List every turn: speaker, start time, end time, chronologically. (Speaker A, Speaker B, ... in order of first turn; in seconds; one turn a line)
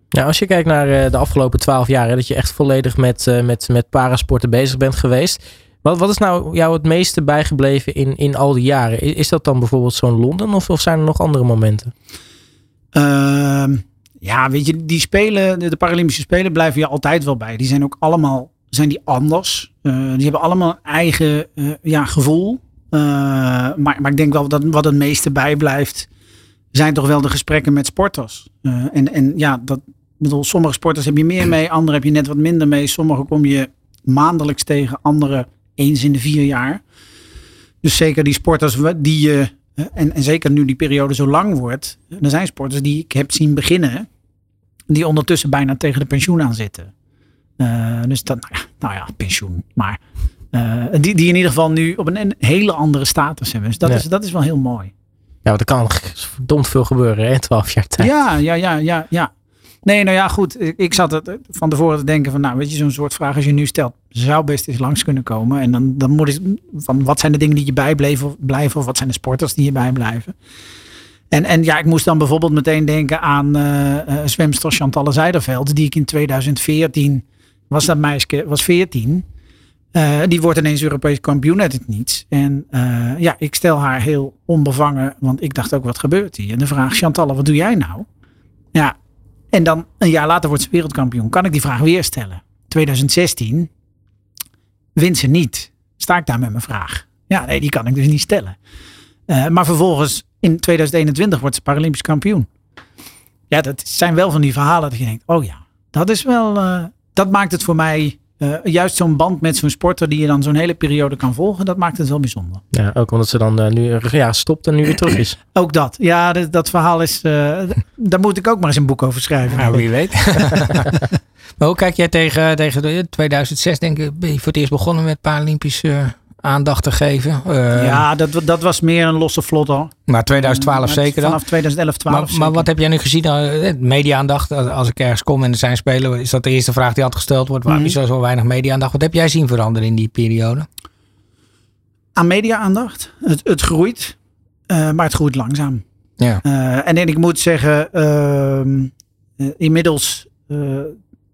Speaker A: 0.1-11.9
Speaker B: 12.9-26.1
Speaker B: 26.7-36.8
Speaker B: 37.8-44.1
Speaker B: 44.9-46.9
Speaker B: 47.6-50.0
Speaker B: 50.5-54.9
Speaker A: 55.4-58.1
Speaker B: 58.0-59.3
Speaker B: 59.8-70.3
Speaker B: 71.3-79.2
Speaker B: 79.9-88.1
Speaker B: 89.5-93.7
Speaker B: 95.0-98.6
Speaker B: 99.3-102.5
Speaker B: 103.5-112.6
Speaker A: 112.7-115.4
Speaker B: 115.5-119.8
Speaker C: 119.5-121.1
Speaker B: 120.4-121.0
Speaker C: 121.6-128.0
Speaker B: 127.8-132.7
Speaker C: 130.1-131.4
Speaker C: 132.1-140.7
Speaker B: 137.7-137.9
Speaker B: 142.2-144.2
Speaker B: 144.7-145.8
Speaker B: 146.4-151.0